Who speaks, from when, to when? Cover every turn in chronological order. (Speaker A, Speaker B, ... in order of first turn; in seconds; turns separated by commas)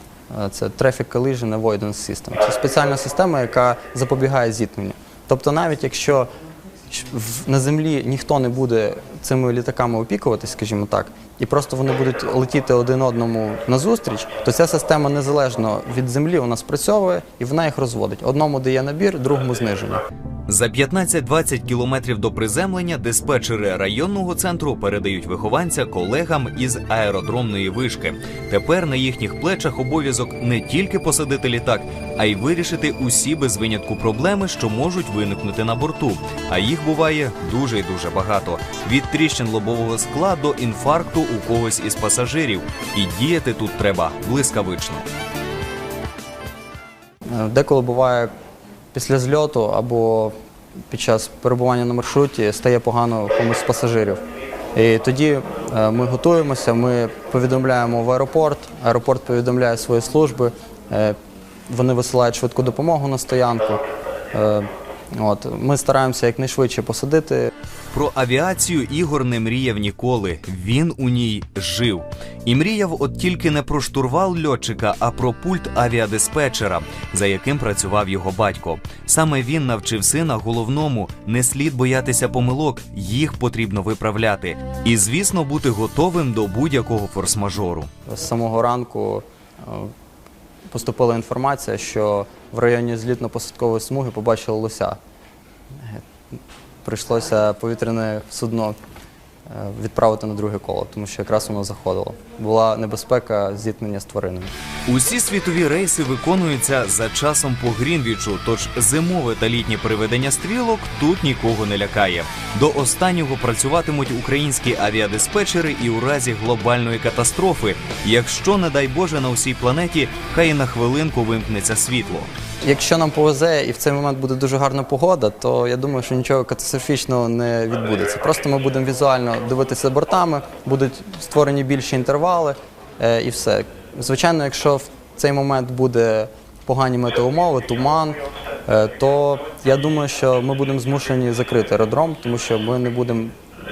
Speaker A: 0.3-6.3, Speaker A: 6.9-20.0, Speaker B: 20.5-45.1, Speaker A: 47.3-48.3, Speaker A: 48.9-50.3, Speaker A: 50.9-54.2, Speaker A: 54.7-61.2, Speaker A: 61.7-67.5, Speaker B: 67.9-87.9, Speaker A: 88.1-89.9, Speaker A: 90.7-95.0, Speaker A: 95.7-98.8, Speaker A: 99.5-104.5, Speaker B: 104.9-122.3, Speaker A: 122.6-143.3